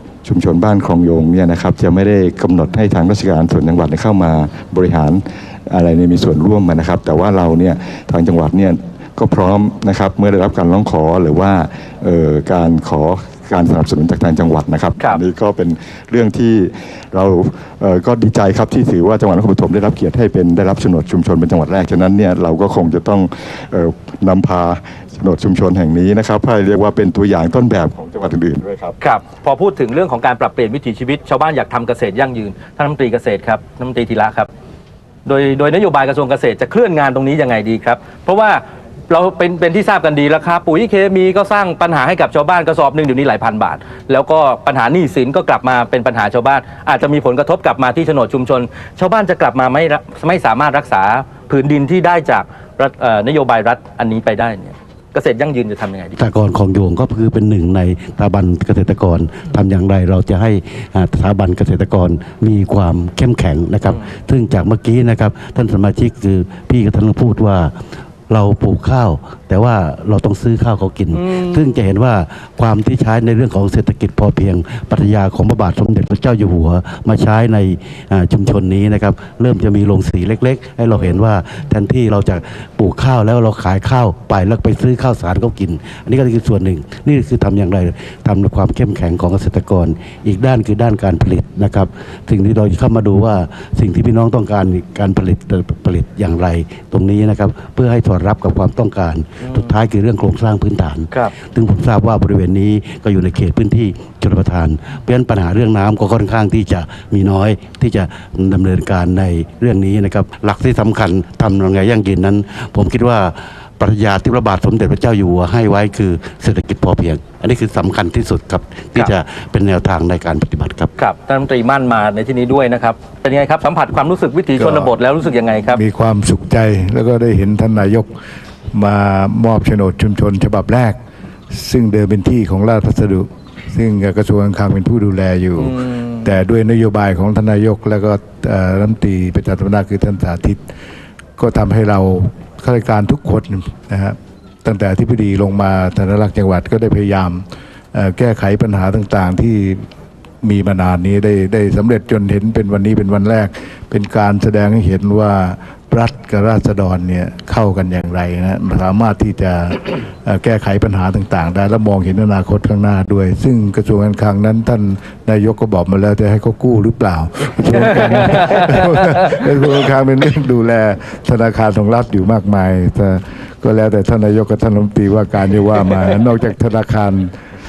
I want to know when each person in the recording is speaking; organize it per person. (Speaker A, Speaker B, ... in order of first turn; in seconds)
Speaker A: 0.2-28.9
Speaker B: 29.0-34.5, 35.2-56.2, 71.1-71.5, 99.4-99.7, 121.0-125.8, 135.6-135.9
Speaker C: 56.2-67.7, 68.3-71.1, 71.7-120.9
Speaker D: 124.6-124.9, 125.7-128.1, 128.7-131.0, 131.5-140.6, 141.4-149.8, 150.4-177.3